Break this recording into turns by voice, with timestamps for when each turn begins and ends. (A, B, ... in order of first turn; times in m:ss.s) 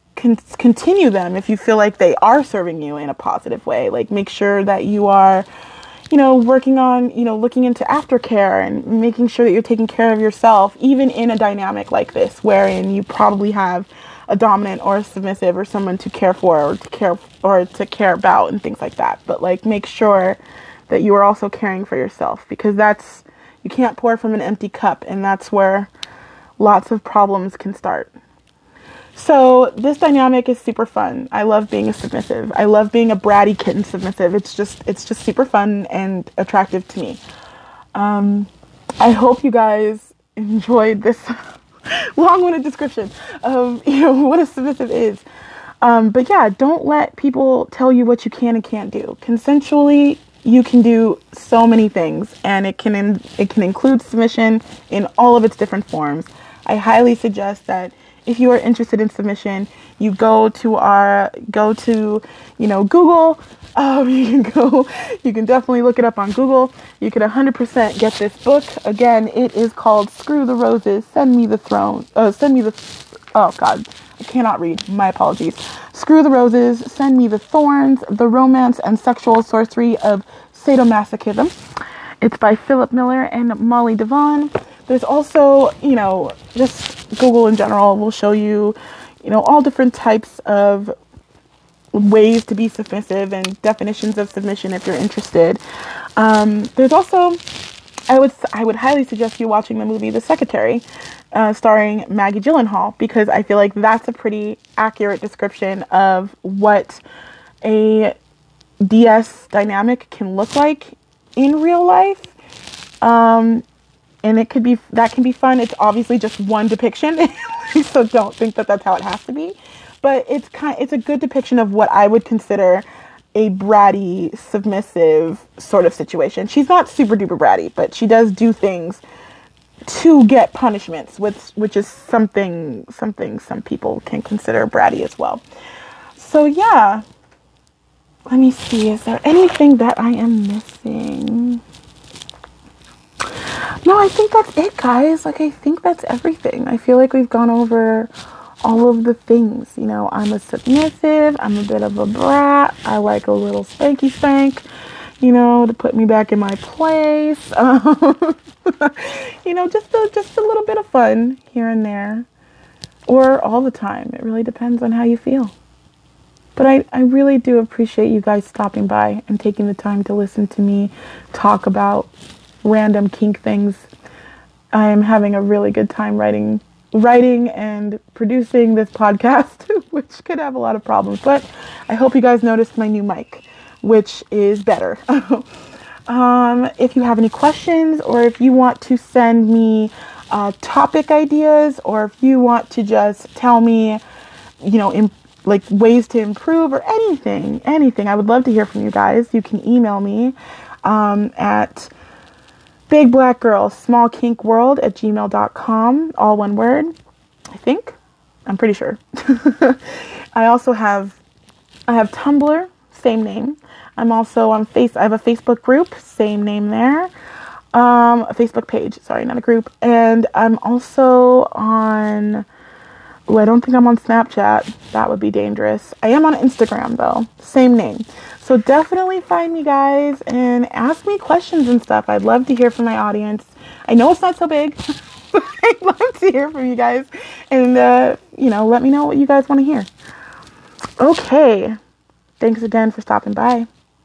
0:00.2-0:05.4 A
0:06.1-0:25.9 A
0:26.6-0:28.1 A
0:29.1-0:37.2 A
0:37.9-0:41.3 A
0:42.2-0:45.2 A
0:45.8-1:21.5 A
1:22.2-1:30.9 A
1:31.9-1:35.6 A
1:36.2-1:37.4 A
1:38.1-1:47.0 A
1:47.6-1:48.1 A
1:48.8-1:52.3 A
1:53.0-1:53.6 A
1:54.2-2:09.0 A
2:09.9-2:15.4 A
2:16.2-2:17.0 A
2:18.3-2:21.6 A
2:23.8-2:28.1 A
2:28.6-2:34.6 A
2:35.2-2:42.3 A
2:43.1-2:45.5 A
2:46.6-2:52.1 A
2:52.6-2:53.9 A
2:54.7-3:05.5 A
3:06.1-3:14.0 A
3:14.6-3:21.9 A
3:22.9-3:26.9 A
3:27.5-3:31.2 A
3:31.9-3:37.1 A
3:37.7-3:42.4 A
3:43.3-3:54.8 A
3:55.3-3:59.9 A
4:01.0-4:01.8 A
4:02.4-4:03.7 A